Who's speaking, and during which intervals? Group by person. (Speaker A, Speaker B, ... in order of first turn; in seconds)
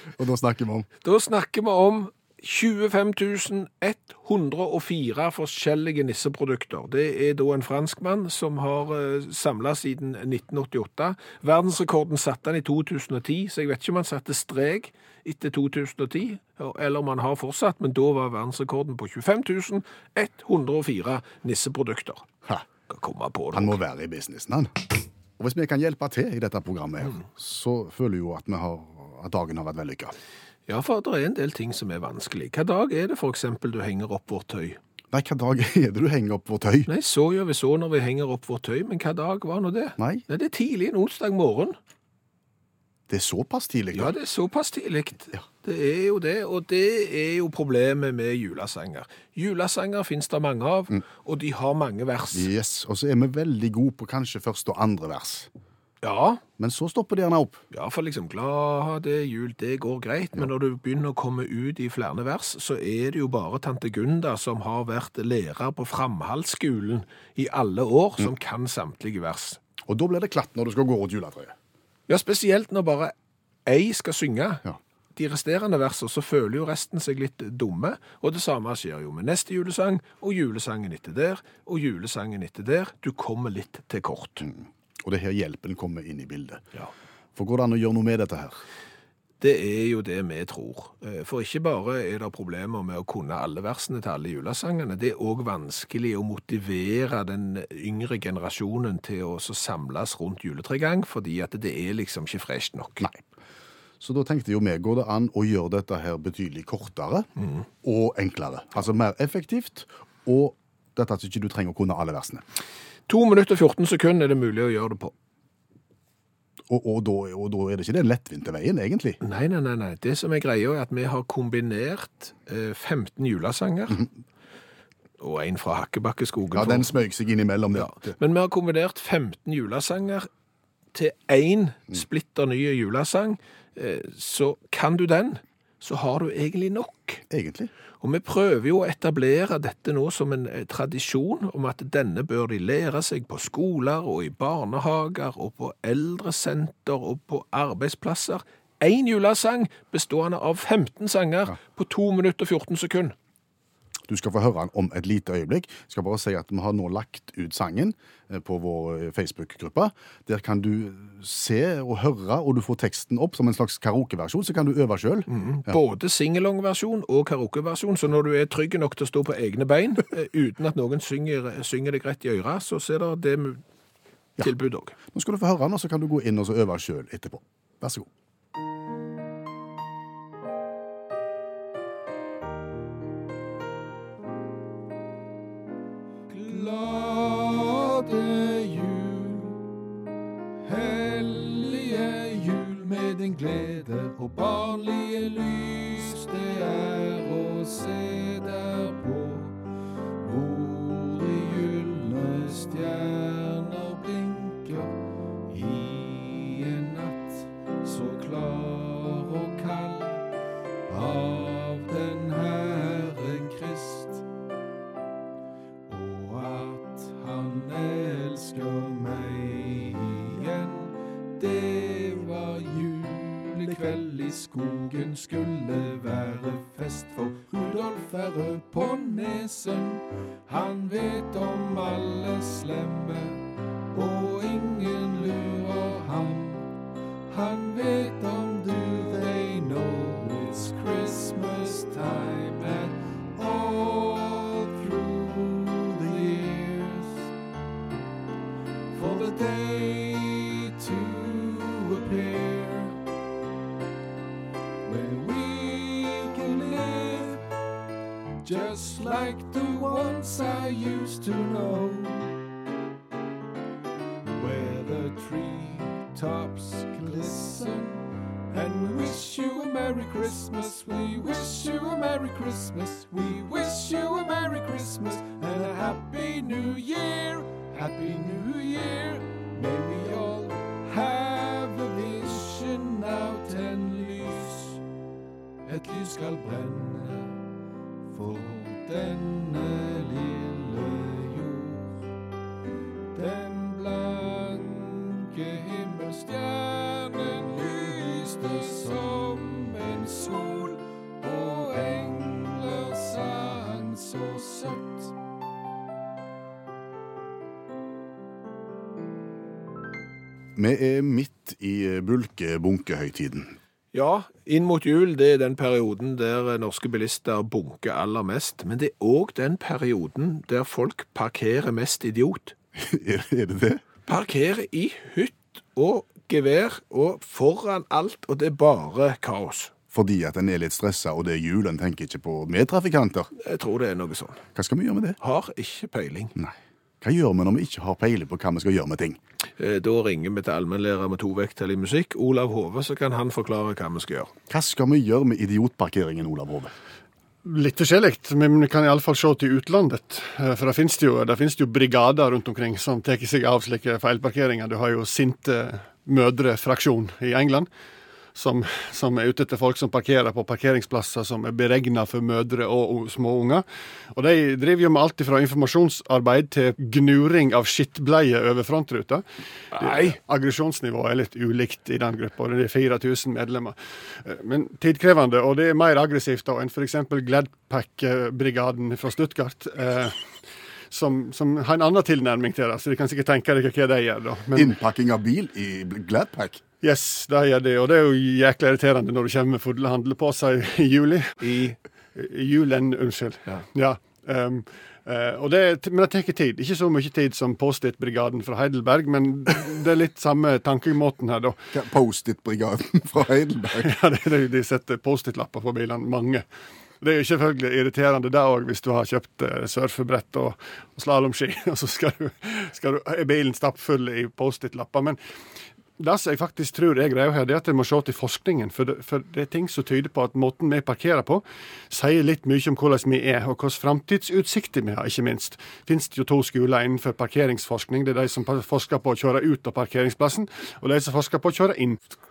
Speaker A: 0.2-0.9, 23.5-30.1, 35.1-36.9, 40.0-40.2, 43.1-44.1, 52.3-55.5, 56.6-57.6, 69.9-71.5, 84.4-86.6, 87.3-88.6, 104.0-107.3, 107.8-112.4, 116.7-119.2, 126.5-128.1, 137.3-137.7, 154.1-165.8, 175.1-178.1, 310.6-313.5, 322.8-323.8, 329.9-333.3, 334.5-335.2, 336.4-339.2, 344.5-346.7, 384.5-386.6, 401.7-403.9
Speaker B: 1.0-22.3, 22.9-23.8, 30.7-34.8, 36.9-41.8, 43.9-52.5, 56.0-56.4, 57.7-69.6, 72.1-73.1, 73.7-74.6, 75.2-84.5, 89.4-103.1, 113.1-115.1, 119.2-124.0, 125.2-126.9, 127.8-130.3, 130.9-137.2, 138.0-153.1, 165.3-173.6, 174.4-175.0, 186.3-189.5, 190.7-199.5, 200.2-204.8, 205.5-207.3, 207.8-210.1, 210.9-214.1, 215.9-220.8, 221.4-229.9, 230.5-233.2, 233.9-236.5, 237.3-242.9, 243.5-246.9, 249.0-252.8, 254.9-257.3, 258.5-262.1, 264.4-267.9, 268.5-284.7, 285.7-287.2, 288.2-291.8, 293.1-304.9, 313.9-322.5, 324.1-329.7, 333.4-334.4, 335.2-336.4, 339.6-344.3, 369.7-370.2, 391.4-391.8
Speaker C: 347.4-357.7, 358.4-380.2, 380.9-384.7, 386.8-391.4, 392.1-401.6, 403.8-406.4, 407.0-415.2, 416.0-432.0